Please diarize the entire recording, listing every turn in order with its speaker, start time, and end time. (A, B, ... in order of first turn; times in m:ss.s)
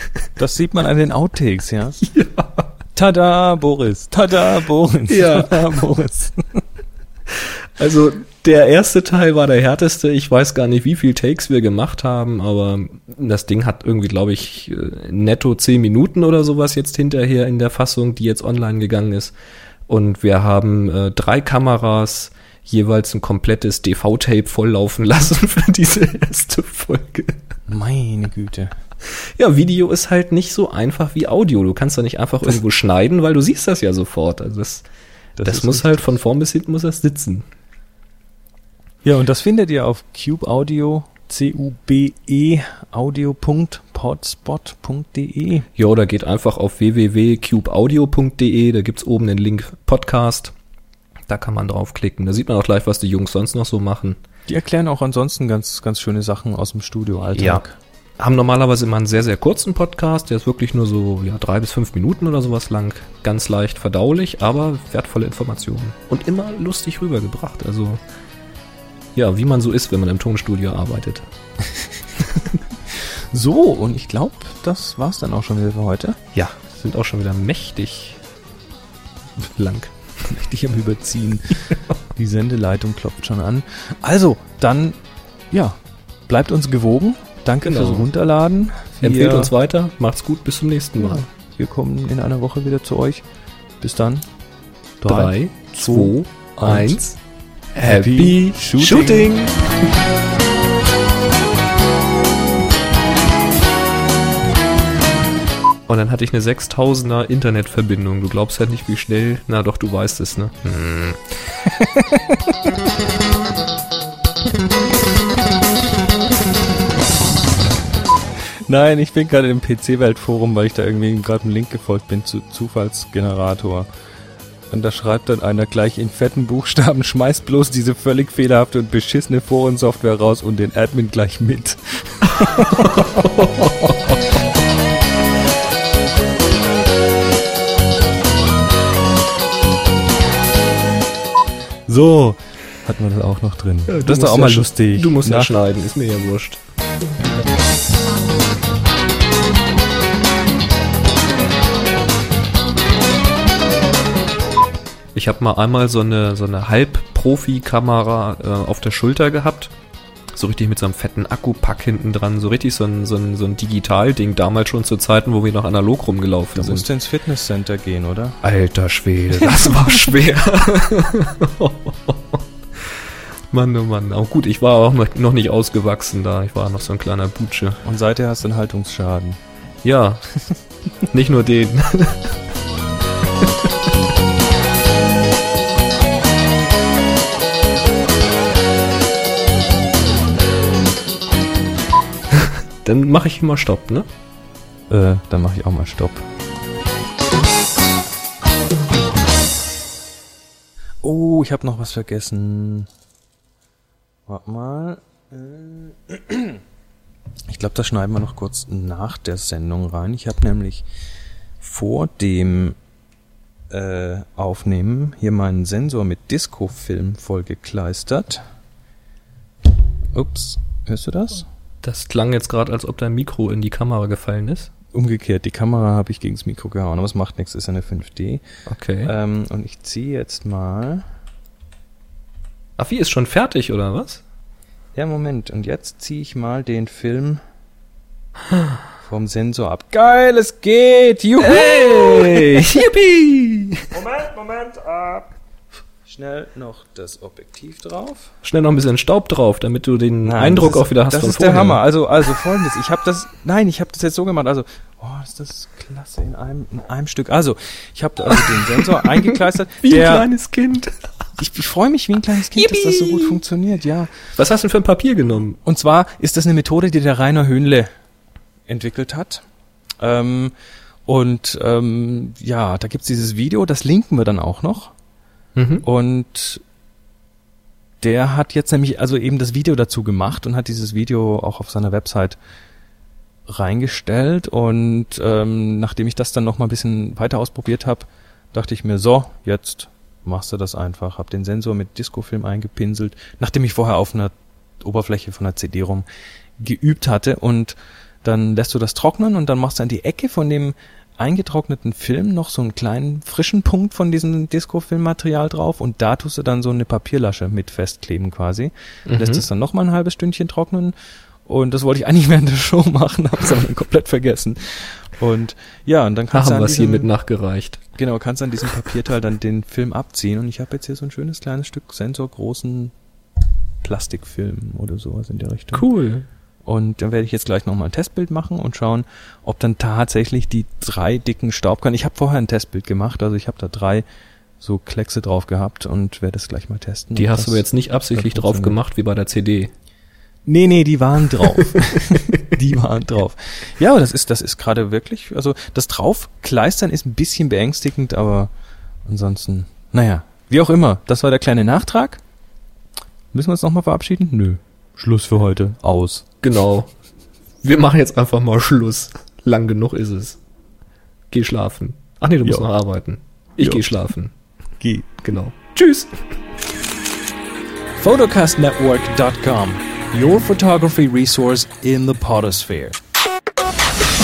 0:00.4-0:02.0 A
0:02.0-0:02.7 B
0:03.0-0:06.6 A
0:05.1-0:05.8 B
0:07.3-0:19.3 B
0:19.9-0:27.4 B
0:27.7-0:28.8 A
0:29.1-0:34.8 B
0:35.4-0:36.1 A
0:35.4-0:37.4 B
0:39.0-0:45.7 A
0:45.8-0:50.5 B
0:51.3-0:54.2 B
0:54.5-0:57.8 A
0:57.4-0:57.6 B
0:58.2-1:08.0 B
1:09.2-1:11.3 B
1:13.3-1:16.2 A
1:16.4-1:18.2 B
1:19.4-1:20.0 B
1:20.3-1:25.0 A
1:25.5-1:29.5 A
1:27.6-1:28.1 B
1:29.0-1:31.2 B
1:31.0-1:33.2 A
1:33.8-1:34.3 A
1:35.0-1:37.0 A
1:35.1-1:37.2 B
1:37.8-1:39.6 B
1:37.8-1:39.3 A
1:45.9-1:51.2 B
1:51.6-1:52.6 A
1:58.7-2:03.9 A
2:04.7-2:13.8 A
2:13.0-2:13.9 B
2:21.9-2:25.5 A
2:23.9-2:26.6 B
2:35.2-2:39.7 B
2:40.4-2:46.9 B
2:46.6-2:48.4 A
2:48.4-2:53.0 B
2:49.4-2:50.1 A
2:53.5-2:57.8 B
2:57.8-2:59.4 A
2:59.8-3:00.3 B
3:01.0-3:02.4 B
3:12.3-3:14.1 B
3:14.9-3:16.3 A
3:21.0-3:22.9 A
3:24.3-3:26.6 A
3:27.5-3:30.9 A
3:31.6-3:32.8 A
3:33.7-3:38.4 A
3:40.1-3:41.5 A
3:41.8-3:44.7 B
3:44.9-3:48.4 A
3:48.7-3:49.1 B
3:49.0-3:51.0 A
3:52.8-3:54.2 B
3:54.9-3:57.4 A
3:59.0-4:02.8 A
4:01.4-4:03.9 B
4:03.9-4:05.3 A
4:06.0-4:08.3 A
4:08.4-4:11.8 B
4:10.2-4:20.3 A
4:18.3-4:21.1 B
4:21.4-4:24.1 A
4:22.6-4:23.4 B
4:24.4-4:25.6 B
4:25.6-4:27.9 A
4:28.7-4:29.4 A
4:30.0-4:30.5 A
4:31.1-4:35.0 A
4:35.6-4:35.8 B
4:35.8-4:36.6 A
4:38.0-4:42.4 A
4:43.5-4:56.0 A
4:56.6-5:11.0 A
5:09.1-5:09.4 B
5:11.5-5:17.1 A
5:16.3-5:17.8 B
5:18.0-5:22.9 A
5:23.8-5:25.9 A
5:25.7-5:26.3 B
5:26.7-5:34.0 A
5:34.6-5:38.8 A
5:37.2-5:39.7 B
5:40.4-5:48.5 A
5:49.0-5:52.2 A
5:53.3-5:56.2 A
5:56.4-5:56.9 B
5:57.6-6:00.4 B
6:01.3-6:04.3 B
6:03.6-6:03.8 A
6:04.8-6:05.1 A
6:05.2-6:06.1 B
6:08.0-6:13.0 A